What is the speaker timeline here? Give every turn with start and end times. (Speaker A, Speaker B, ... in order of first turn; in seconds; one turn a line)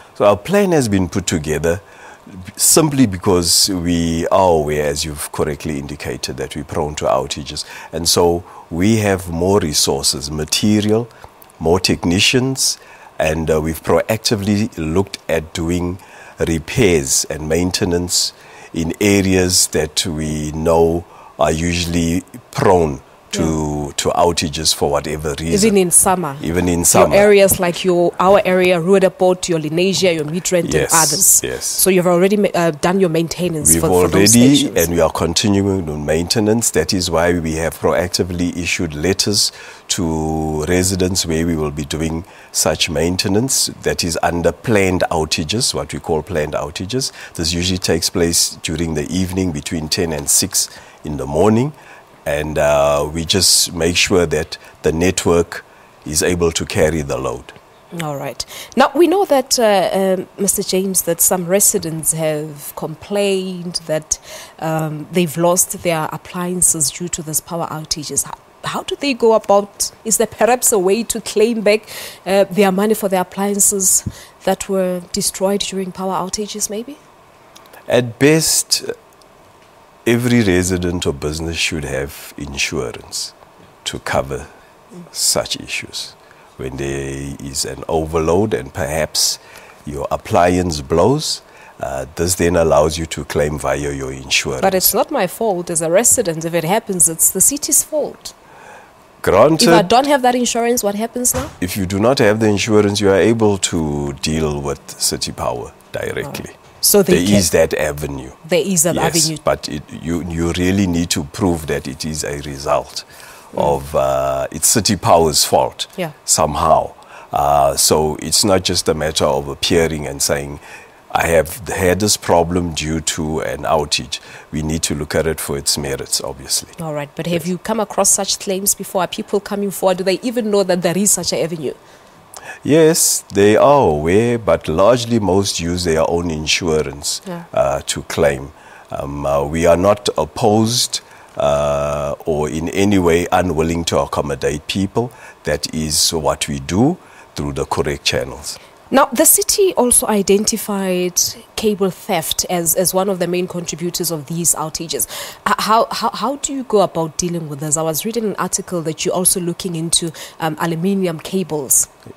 Speaker A: 0.2-25.8
Speaker B: 25.5-34.9
Speaker A: 26.4-27.3
Speaker A: 30.6-31.8
Speaker A: 33.6-57.5
Speaker B: 57.9-77.0
Speaker A: 77.9-78.9
Speaker A: 80.0-83.3
Speaker A: 83.8-84.5
Speaker A: 85.1-94.9
Speaker B: 94.6-98.3
Speaker A: 99.2-99.9
Speaker B: 99.6-101.5
Speaker A: 101.6-106.5
Speaker B: 106.8-107.5
Speaker A: 107.1-108.4
Speaker B: 108.4-109.4
Speaker A: 108.9-126.8
Speaker B: 126.8-131.8
Speaker A: 132.6-148.6
Speaker B: 148.9-161.9